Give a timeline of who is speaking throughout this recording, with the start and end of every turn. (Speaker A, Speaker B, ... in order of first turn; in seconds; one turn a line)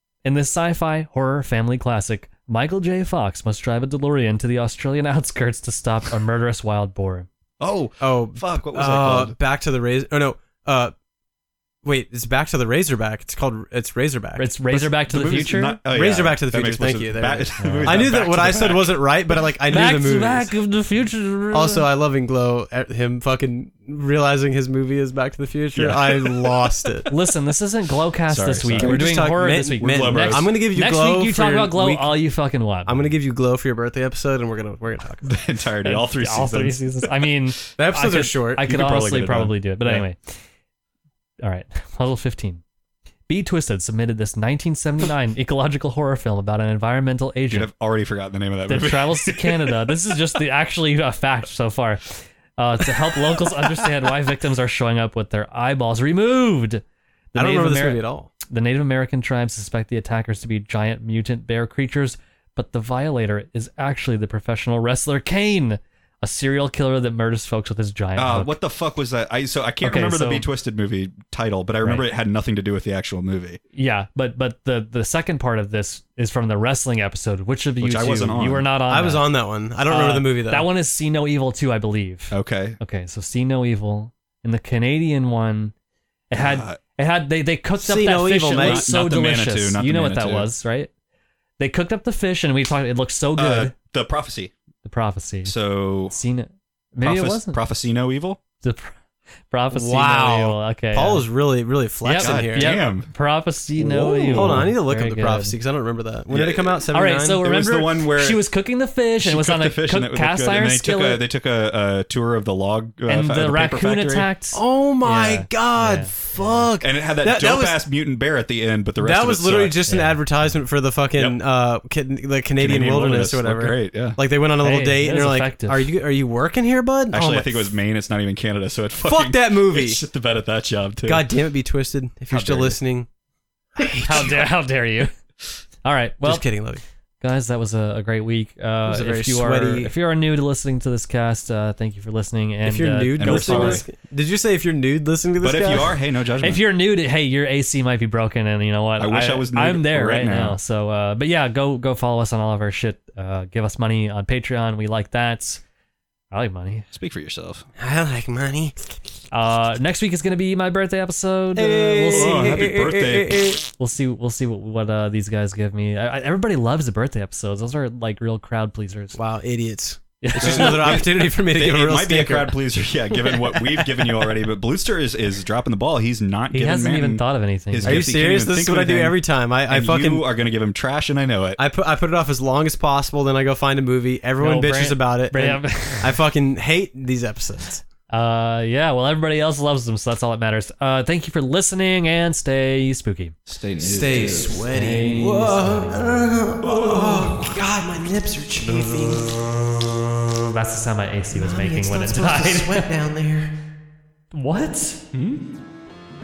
Speaker A: 0.2-7.3
Speaker B: 7.6-9.3
Speaker C: 8.0-10.9
Speaker C: 11.8-14.4
Speaker A: 14.4-15.8
Speaker B: 14.7-19.0
Speaker C: 15.9-20.5
Speaker A: 17.6-18.2
Speaker A: 19.7-21.8
Speaker C: 21.5-27.1
Speaker B: 25.7-26.9
Speaker A: 27.1-33.1
Speaker B: 28.3-29.2
Speaker C: 28.8-32.2
Speaker B: 29.8-30.5
Speaker C: 32.9-35.3
Speaker B: 35.2-37.2
Speaker A: 35.8-40.4
Speaker C: 37.8-38.6
Speaker B: 38.6-40.0
Speaker A: 41.4-42.6
Speaker A: 43.3-47.7
Speaker B: 47.5-49.8
Speaker A: 48.7-68.5
Speaker C: 57.4-58.3
Speaker B: 68.2-73.6
Speaker A: 69.8-70.5
Speaker A: 73.7-79.2
Speaker B: 77.8-78.6
Speaker C: 78.9-80.7
Speaker A: 79.9-85.7
Speaker B: 82.3-82.8
Speaker A: 86.3-90.9
Speaker B: 86.3-86.8
Speaker C: 87.8-88.9
Speaker B: 88.5-90.5
Speaker A: 91.6-93.7
Speaker B: 93.4-94.5
Speaker A: 94.8-95.5
Speaker B: 95.4-96.2
Speaker A: 96.1-97.6
Speaker B: 97.0-98.4
Speaker A: 98.6-99.0
Speaker A: 99.5-101.2
Speaker C: 99.7-102.7
Speaker A: 102.0-105.5
Speaker B: 102.2-103.1
Speaker B: 103.8-104.7
Speaker C: 104.3-107.4
Speaker B: 106.3-106.9
Speaker A: 106.9-111.2
Speaker B: 107.4-108.4
Speaker B: 109.2-114.3
Speaker A: 113.1-116.7
Speaker C: 114.5-117.8
Speaker B: 116.8-119.8
Speaker C: 119.0-127.7
Speaker A: 119.9-120.2
Speaker B: 122.6-124.2
Speaker A: 124.6-125.9
Speaker B: 127.1-131.2
Speaker C: 129.0-130.0
Speaker C: 131.1-133.1
Speaker B: 132.3-132.8
Speaker C: 133.8-134.4
Speaker A: 134.0-135.1
Speaker A: 135.8-136.4
Speaker C: 136.2-136.8
Speaker A: 137.2-143.8
Speaker C: 138.9-139.9
Speaker C: 142.6-146.0
Speaker B: 143.2-143.8
Speaker B: 145.4-146.6
Speaker A: 146.4-155.6
Speaker B: 149.0-150.6
Speaker A: 156.3-156.8
Speaker B: 156.9-157.6
Speaker C: 157.8-158.8
Speaker A: 159.3-162.6
Speaker C: 161.5-163.6
Speaker B: 162.1-163.6
Speaker A: 163.8-169.2
Speaker C: 169.1-172.6
Speaker A: 170.2-171.0
Speaker B: 170.4-179.2
Speaker C: 173.1-174.1
Speaker A: 176.5-178.1
Speaker C: 177.8-180.2
Speaker B: 179.7-181.6
Speaker C: 181.6-187.8
Speaker A: 184.4-186.2
Speaker A: 188.1-193.4
Speaker B: 193.5-194.7
Speaker C: 193.8-199.7
Speaker A: 194.7-196.3
Speaker B: 196.6-197.5
Speaker A: 198.6-199.4
Speaker A: 200.5-202.9
Speaker C: 201.3-203.5
Speaker A: 204.3-205.0
Speaker B: 205.1-205.4